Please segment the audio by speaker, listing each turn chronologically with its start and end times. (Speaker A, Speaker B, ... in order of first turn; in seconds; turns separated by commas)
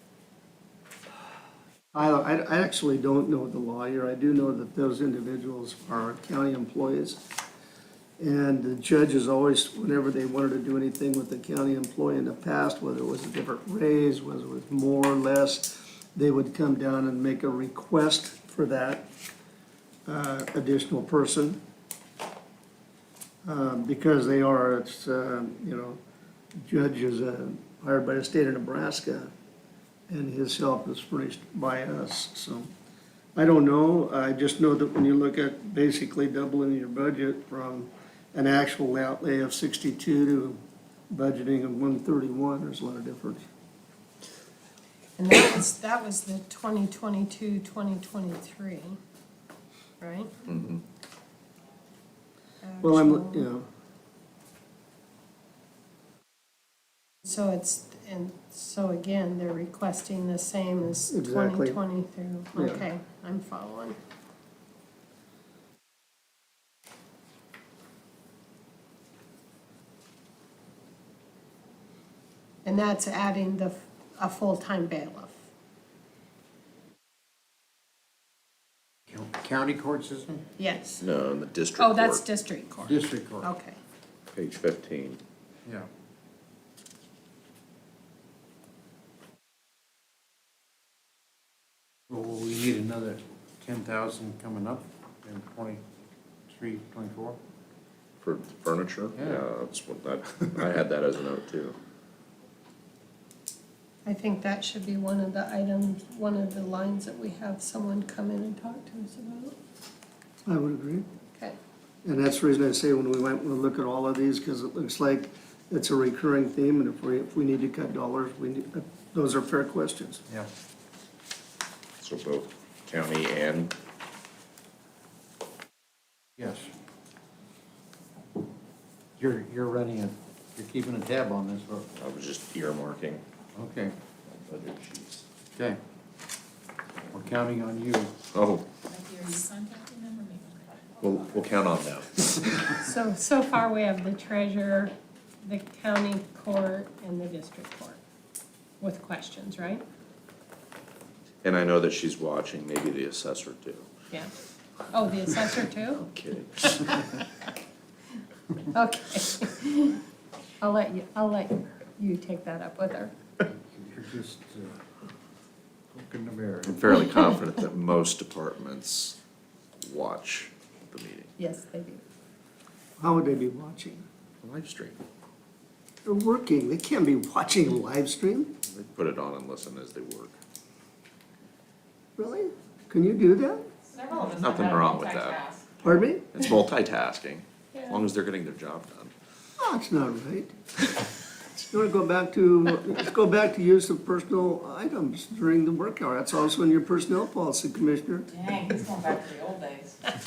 Speaker A: 1.9-7.2, Speaker A: 8.2-19.0, Speaker A: 20.1-21.6, Speaker A: 23.4-26.0, Speaker A: 26.6-29.3, Speaker A: 30.1-32.7, Speaker A: 33.4-40.6, Speaker A: 41.1-43.4, Speaker B: 45.2-49.0, Speaker B: 50.0-50.3, Speaker C: 50.5-50.8, Speaker B: 52.6-53.5, Speaker A: 52.8-53.6, Speaker B: 57.2-64.0, Speaker A: 61.1-61.8, Speaker A: 62.5-62.9, Speaker B: 72.6-75.4, Speaker D: 79.1-80.4, Speaker B: 80.6-81.0, Speaker C: 81.0-82.2, Speaker B: 81.8-83.8, Speaker D: 82.8-83.5, Speaker C: 84.3-85.2, Speaker D: 92.1-95.8, Speaker D: 96.5-97.4, Speaker C: 98.2-101.8, Speaker D: 99.2-99.4, Speaker B: 104.0-109.5, Speaker A: 110.5-111.0, Speaker A: 112.0-120.2, Speaker C: 122.0-123.7, Speaker D: 126.4-126.7, Speaker D: 129.2-131.9, Speaker C: 131.9-133.2, Speaker D: 133.6-133.9, Speaker C: 134.3-135.2, Speaker D: 137.1-138.1, Speaker C: 138.3-138.6, Speaker E: 138.9-141.4, Speaker C: 141.0-142.8, Speaker B: 142.8-148.0, Speaker B: 148.8-149.8, Speaker C: 151.4-153.9, Speaker B: 154.9-156.0, Speaker C: 155.9-156.9, Speaker B: 158.7-160.0, Speaker B: 160.6-163.1, Speaker D: 163.5-164.8, Speaker D: 165.9-166.8, Speaker C: 166.7-169.2, Speaker C: 169.8-171.3, Speaker B: 171.4-172.0, Speaker A: 173.0-174.0, Speaker C: 174.4-175.0, Speaker A: 176.0-178.5, Speaker C: 178.7-180.3, Speaker A: 182.2-183.7, Speaker E: 183.9-185.6, Speaker C: 184.3-185.4, Speaker A: 185.8-186.2, Speaker C: 186.3-189.1, Speaker A: 189.6-190.5, Speaker A: 191.6-198.3, Speaker E: 198.3-200.0